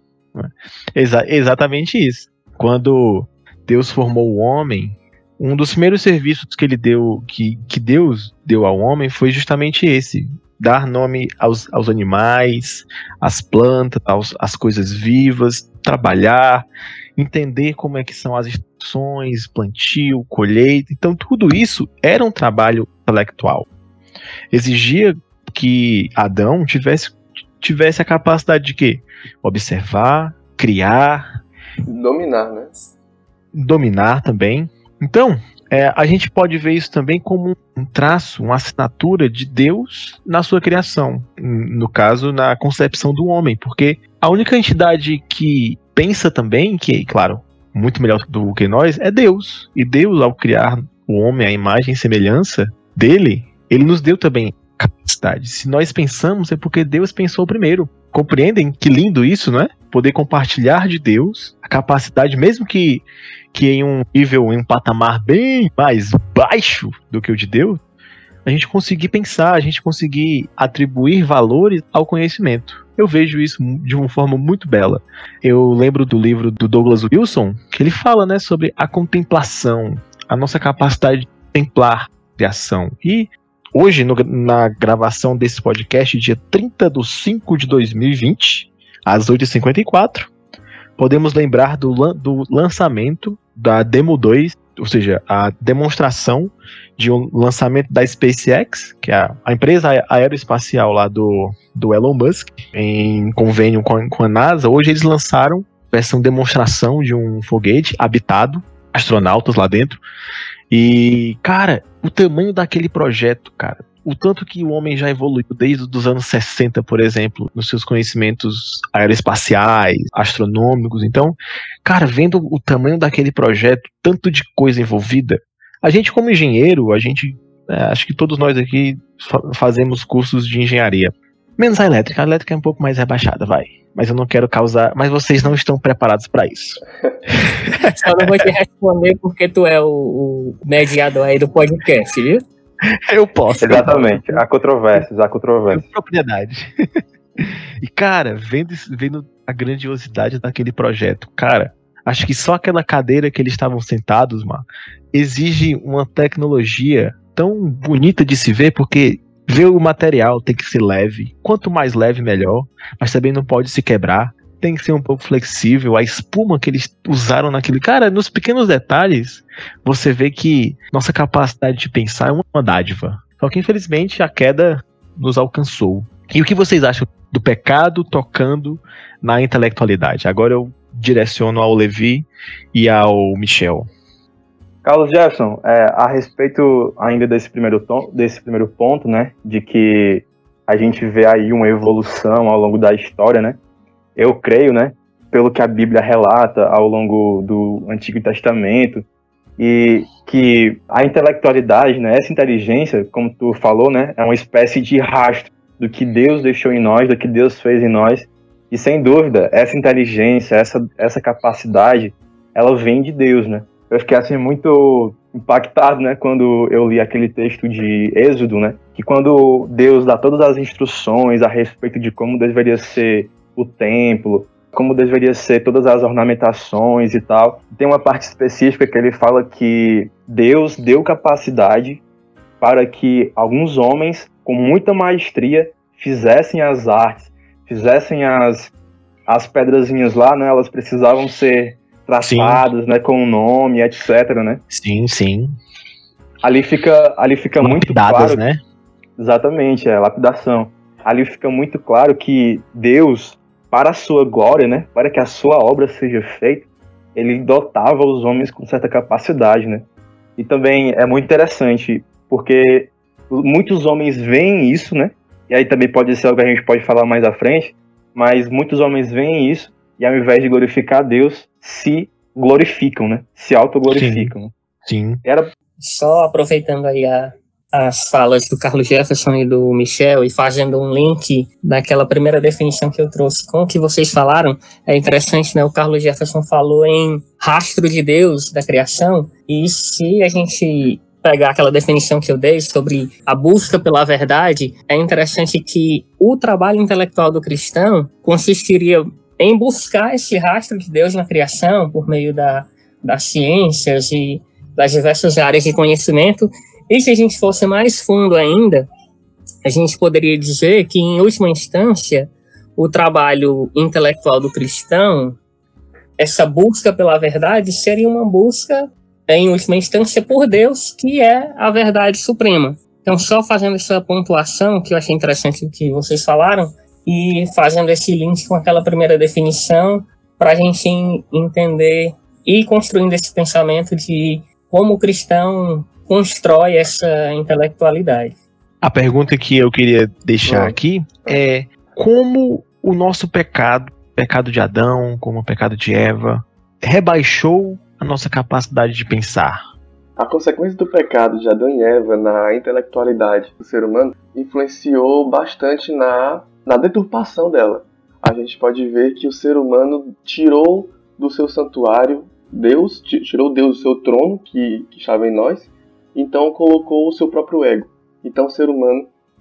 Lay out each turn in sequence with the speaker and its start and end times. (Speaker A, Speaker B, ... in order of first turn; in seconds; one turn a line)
Speaker A: 0.3-23.7
Speaker A: 24.5-31.3
Speaker B: 31.8-32.7
Speaker A: 33.5-67.8
Speaker A: 68.4-90.3
Speaker A: 91.0-110.0
Speaker A: 110.7-138.4
Speaker C: 137.9-142.4
Speaker A: 143.1-144.4
Speaker D: 143.6-145.8
Speaker A: 145.7-146.7
Speaker A: 147.4-183.9
Speaker D: 184.8-193.6
Speaker D: 194.2-199.1
Speaker D: 199.6-232.0
Speaker D: 232.6-238.7
Speaker D: 239.3-244.6
Speaker A: 242.2-242.7
Speaker A: 244.7-245.6
Speaker D: 246.4-248.4
Speaker A: 247.6-248.6
Speaker D: 249.2-274.5
Speaker A: 273.9-274.3
Speaker A: 274.8-275.2
Speaker D: 275.2-275.5
Speaker C: 275.8-308.9
Speaker C: 309.6-315.4
Speaker C: 316.2-338.4
Speaker A: 338.8-349.6
Speaker B: 340.4-341.4
Speaker B: 350.2-369.1